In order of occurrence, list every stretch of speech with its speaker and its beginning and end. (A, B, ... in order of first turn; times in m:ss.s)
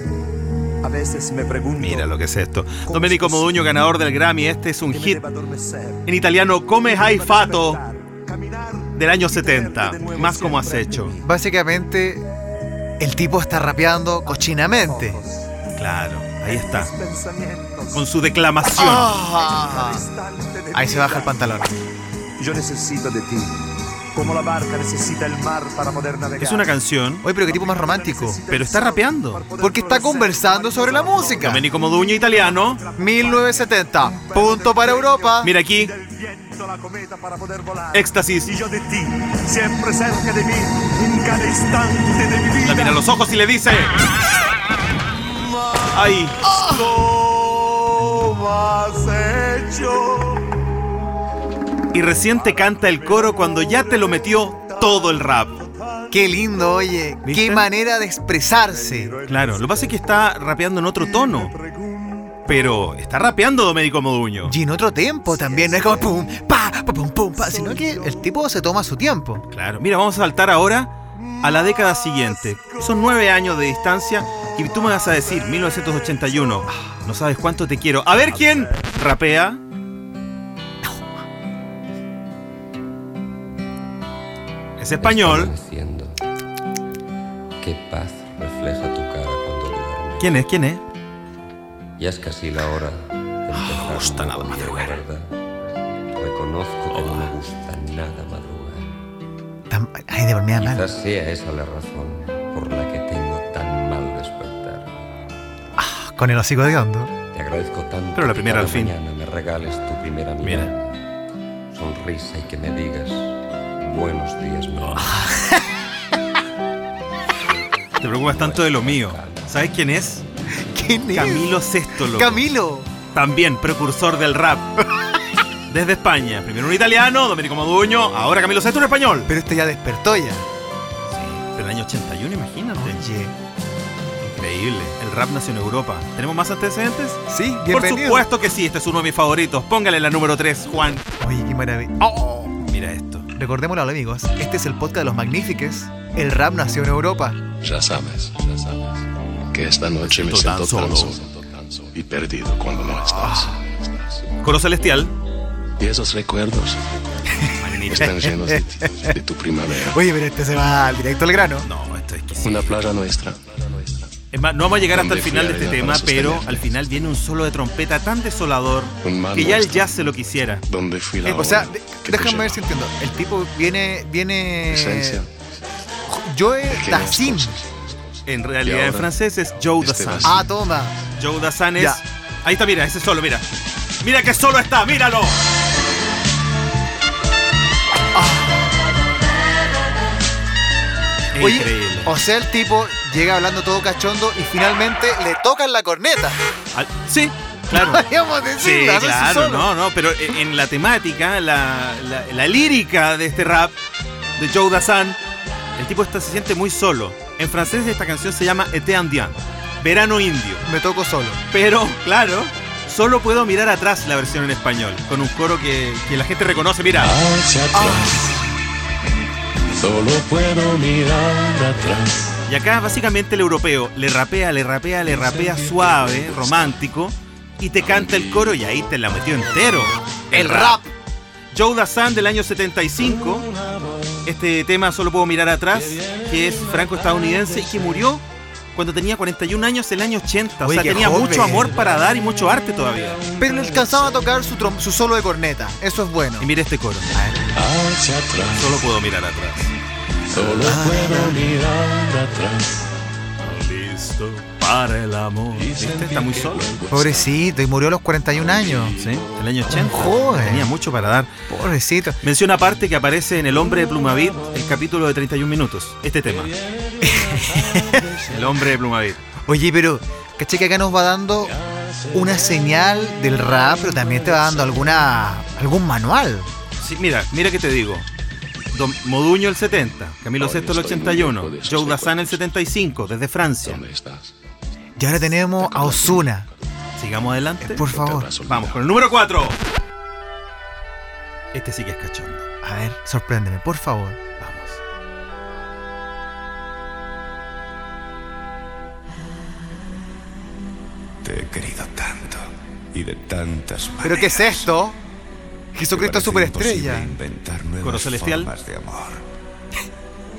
0:00.8-0:02.1 A
0:01.8-0:05.2 B
0:02.8-0:03.6 A
0:04.9-0:06.0 A
0:06.1-0:07.8 B
0:06.9-0:11.2 A
0:09.0-0:11.2 B
0:11.2-0:12.2 C
0:13.0-0:15.2 C
0:14.3-0:15.5 A
0:15.8-0:16.9 B
0:16.5-0:18.1 A
0:17.9-0:19.2 B
0:18.7-0:20.1 C
0:19.2-0:21.3 A
0:20.7-0:21.7 C
0:22.4-0:23.6 A
0:24.1-0:26.8 A
0:26.4-0:27.2 B
0:27.2-0:28.4 C
0:27.4-0:31.6 A
0:28.5-0:29.4 B
0:29.6-0:31.6 C
0:31.4-0:32.8 B
0:32.2-0:43.0 A
0:33.0-0:35.5 C
0:35.4-0:35.9 B
0:37.9-0:38.5 B
0:42.6-0:44.0 B
0:45.4-0:50.5 A
0:45.9-0:46.4 B
0:46.4-0:46.9 C
0:51.9-0:55.6 B
0:56.1-0:59.2 C
0:57.2-0:57.6 B
0:58.8-0:59.9 A
0:59.3-1:01.5 B
1:01.2-1:02.4 A
1:02.5-1:04.5 B
1:04.5-1:09.5 C
1:05.4-1:06.0 A
1:07.4-1:08.2 A
1:09.5-1:19.6 B
1:24.8-1:25.5 B
1:25.0-1:26.2 D
1:27.6-1:30.4 D
1:30.2-1:30.8 B
1:32.0-1:38.9 D
1:33.5-1:35.0 B
1:36.9-1:37.3 B
1:39.7-1:40.8 C
1:40.6-1:45.0 D
1:45.8-1:47.1 C
1:47.3-1:51.0 D
1:48.1-1:48.9 B
1:50.4-1:50.7 B
1:51.7-1:55.2 D
1:55.1-1:55.6 C
1:58.0-2:00.2 B
1:58.2-1:59.6 D
2:00.7-2:01.5 C
2:01.1-2:02.4 B
2:02.1-2:02.9 C
2:03.1-2:04.7 B
2:05.7-2:09.3 B
2:09.3-2:10.4 C
2:11.1-2:13.0 B
2:12.8-2:13.3 C
2:14.2-2:21.0 B
2:17.3-2:18.3 C
2:21.2-2:22.6 C
2:22.7-2:23.3 B
2:23.3-2:27.4 C
2:27.6-2:34.2 E
2:30.2-2:31.2 B
2:33.1-2:33.6 C
2:34.4-2:35.1 B
2:35.8-2:36.8 E
2:37.6-2:38.1 B
2:37.9-2:40.0 E
2:38.1-2:39.2 C
2:39.8-2:41.7 C
2:41.6-2:42.8 B
2:42.4-2:44.1 E
2:44.3-2:50.6 B
2:44.8-2:46.9 E
2:49.0-2:50.0 E
2:50.7-2:52.6 E
2:51.2-2:55.2 C
2:54.7-2:55.2 E
2:56.2-2:57.6 C
2:56.7-2:59.1 E
2:58.2-3:00.4 B
2:59.8-3:00.6 E
3:00.2-3:01.0 C
3:01.2-3:03.4 B
3:04.0-3:05.4 B
3:08.1-3:08.6 C
3:11.4-3:12.1 B
3:11.4-3:16.4 C
3:16.7-3:18.0 B
3:17.7-3:19.7 C
3:18.6-3:23.7 B
3:24.4-3:25.2 B
3:25.8-3:30.6 B
3:30.7-3:31.4 C
3:31.5-3:37.2 B
3:37.0-3:38.2 E
3:37.7-3:38.3 C
3:39.8-3:42.3 E
3:42.5-3:50.8 B
3:50.3-3:50.9 C
3:51.5-3:53.5 B
3:54.2-3:58.2 B
3:58.8-4:03.2 B
4:00.6-4:01.7 C
4:03.4-4:06.5 C
4:06.4-4:07.1 B
4:07.1-4:07.6 C
4:07.6-4:08.8 E
4:08.5-4:09.7 B
4:10.4-4:10.8 B
4:10.4-4:12.9 E
4:10.6-4:11.5 C
4:13.4-4:16.8 B
4:15.8-4:17.1 E
4:16.9-4:19.0 C
4:19.0-4:21.3 B
4:19.7-4:20.7 C
4:21.5-4:22.2 C
4:22.2-4:26.5 B
4:27.0-4:28.2 C
4:28.3-4:29.2 B
4:29.4-4:31.6 C
4:32.1-4:36.5 C
4:36.8-4:38.1 B
4:38.7-4:43.8 B
4:40.4-4:42.5 E
4:43.7-4:44.3 E
4:45.0-4:46.4 C
4:45.6-4:46.2 E
4:47.0-4:47.8 B
4:47.6-4:48.3 C
4:47.8-4:49.0 E
4:48.4-4:49.6 B
4:51.5-4:52.4 B
4:52.6-4:54.2 C
4:54.4-4:54.8 B
5:01.2-5:04.7 F
5:04.0-5:05.0 C
5:05.7-5:07.1 C
5:05.9-5:09.2 F
5:07.8-5:08.5 B